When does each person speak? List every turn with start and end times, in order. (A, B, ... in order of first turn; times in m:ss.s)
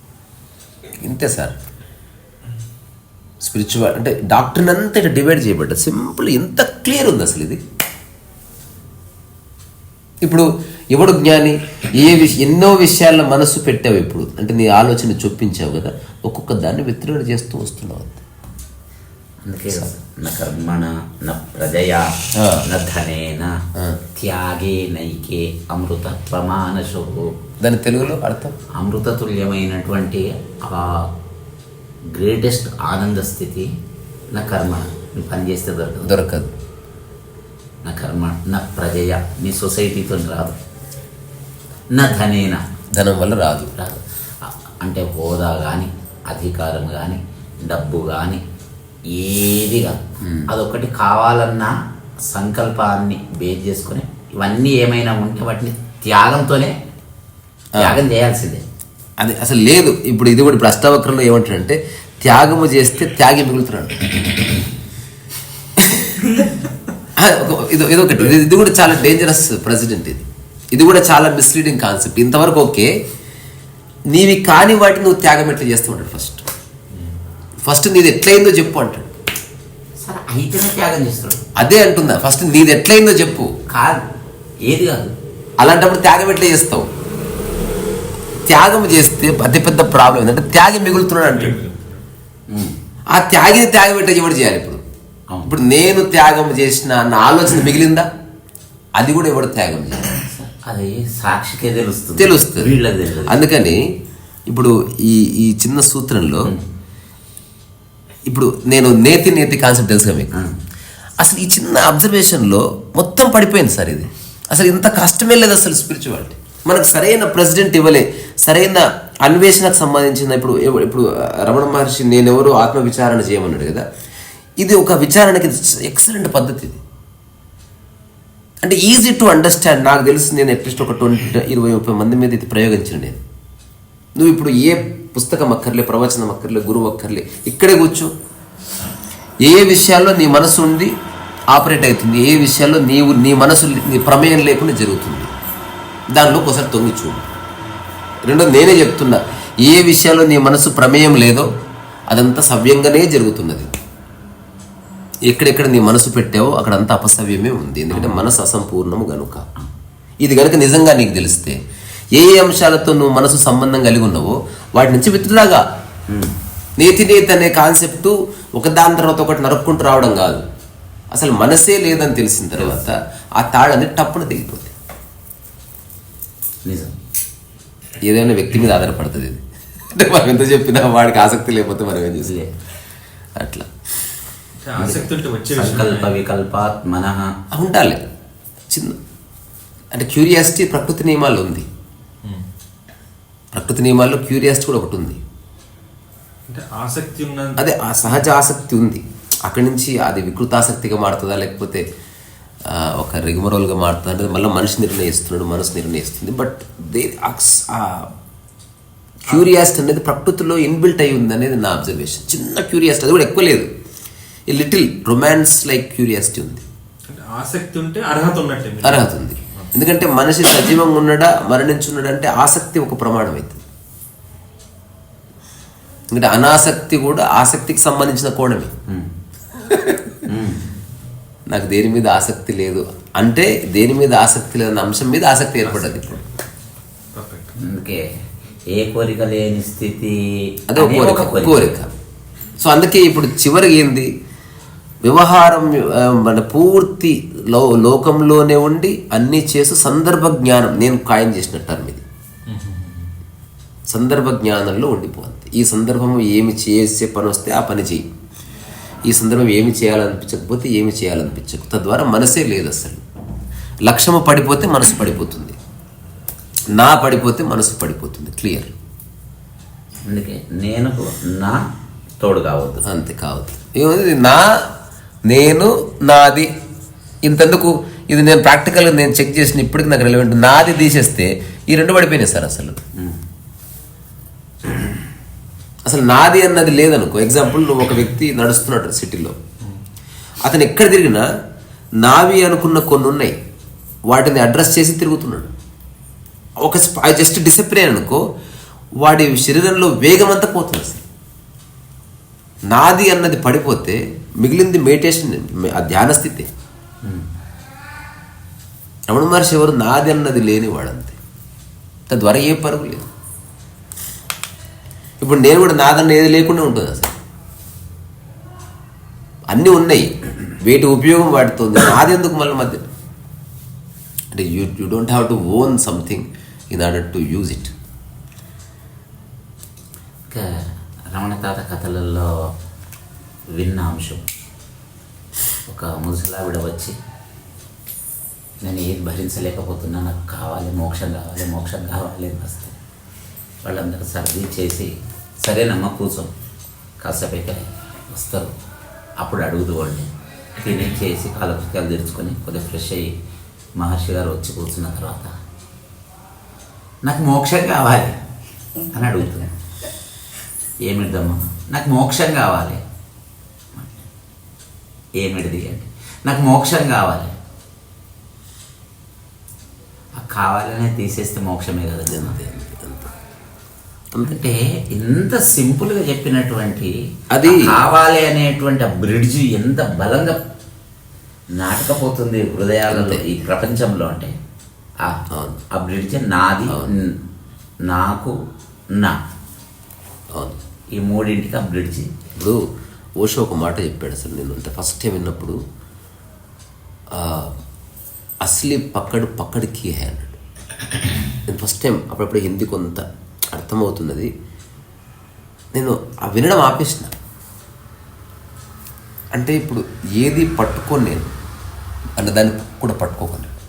0:01.0-0:01.6 A
0:03.4-0:07.6 A
0:10.2-0:18.2 A
0:19.4-0:23.6 B
0:22.4-0:22.7 A
0:24.2-0:27.3 B
0:27.6-0:28.6 A
0:28.8-0:31.1 B
0:32.1-0:33.7 B
0:34.3-0:36.1 B
0:36.0-0:36.5 A
0:37.8-0:40.6 B
0:41.9-0:42.6 B
0:42.9-0:43.7 A
0:43.8-0:48.4 B
0:49.1-0:51.7 B
0:52.3-0:56.8 B
0:57.8-0:58.1 A
0:57.8-0:58.6 B
0:59.2-1:04.1 A
1:05.8-1:06.3 A
1:07.2-1:12.9 A
1:14.1-1:16.5 A
1:17.6-1:19.1 A
1:20.0-1:21.4 B
1:21.6-1:23.5 A
1:23.7-1:24.1 B
1:24.6-1:25.1 B
1:25.6-1:26.9 A
1:28.5-1:31.6 A
1:31.2-1:32.0 C
1:32.5-1:32.8 B
1:33.1-1:34.8 A
1:35.5-1:38.1 A
1:39.0-1:40.1 A
1:40.1-1:43.4 B
1:42.2-1:43.8 A
1:44.5-1:46.5 A
1:48.3-1:50.4 A
1:51.2-2:03.8 A
2:04.6-2:06.8 A
2:08.6-2:13.2 A
2:14.2-2:18.1 A
2:19.4-2:20.9 A
2:21.5-2:25.3 A
2:26.1-2:27.3 A
2:28.2-2:31.5 A
2:32.1-2:33.7 A
2:35.3-2:39.5 A
2:37.9-2:38.2 B
2:40.2-2:41.6 A
2:42.2-2:45.6 A
2:46.1-2:46.4 B
2:46.8-2:50.4 A
2:51.1-2:54.8 A
2:56.7-2:56.9 B
2:58.0-3:02.4 A
3:02.2-3:02.5 B
3:03.4-3:03.7 A
3:04.6-3:06.2 C
3:04.8-3:07.3 B
3:07.5-3:08.0 A
3:08.7-3:09.0 A
3:09.9-3:11.7 A
3:13.5-3:15.2 A
3:16.5-3:17.6 C
3:17.6-3:21.8 A
3:22.6-3:28.1 A
3:29.3-3:33.7 A
3:34.5-3:36.7 A
3:37.1-3:39.7 C
3:38.8-3:43.6 A
3:46.1-3:48.7 A
3:49.7-3:50.1 A
3:50.3-3:50.7 B
3:51.5-3:56.2 A
3:55.7-3:56.2 C
3:57.2-3:57.5 C
3:57.6-3:58.1 B
3:58.7-4:01.7 B
4:00.7-4:01.9 A
4:02.6-4:04.1 A
4:05.0-4:12.0 A
4:12.5-4:13.1 C
4:13.9-4:18.0 A
4:19.1-4:23.0 A
4:23.8-4:25.6 A
4:26.7-4:28.8 A
4:30.1-4:31.6 B
4:32.2-4:32.8 B
4:32.8-4:34.5 A
4:35.3-4:36.5 A
4:37.2-4:42.8 A
4:45.8-4:49.4 A
4:50.4-4:51.3 A
4:52.0-4:53.4 A
4:54.1-4:55.5 A
4:56.6-4:58.2 A
4:59.0-5:01.0 A
5:02.7-5:06.5 A
5:09.1-5:11.2 A
5:12.1-5:13.1 A
5:15.2-5:17.2 A
5:19.5-5:22.9 A
5:24.3-5:27.7 A
5:30.3-5:32.4 B
5:33.6-5:34.2 B
5:35.7-5:37.0 B
5:38.6-5:42.8 B
5:43.6-5:46.3 B
5:47.0-5:48.5 B
5:49.2-5:53.1 B
5:53.8-5:55.3 B
5:57.0-5:58.2 B
5:58.9-5:59.5 B
6:00.8-6:02.8 B
6:03.8-6:04.0 B
6:05.2-6:07.4 B
6:10.2-6:12.4 B
6:12.1-6:13.1 A
6:14.1-6:14.4 A
6:14.2-6:20.4 B
6:17.3-6:17.7 A
6:21.6-6:24.4 B
6:22.9-6:23.2 A
6:25.0-6:27.2 B
6:25.3-6:25.6 A
6:26.7-6:26.9 A
6:27.9-6:28.4 B
6:30.3-6:30.6 A
6:31.0-6:32.1 B
6:32.4-6:32.6 A
6:33.2-6:35.6 A
6:37.1-6:37.5 A
6:38.4-6:40.4 A
6:41.5-6:44.3 A
6:45.7-6:47.1 A
6:49.3-6:51.3 A
6:52.2-6:53.5 A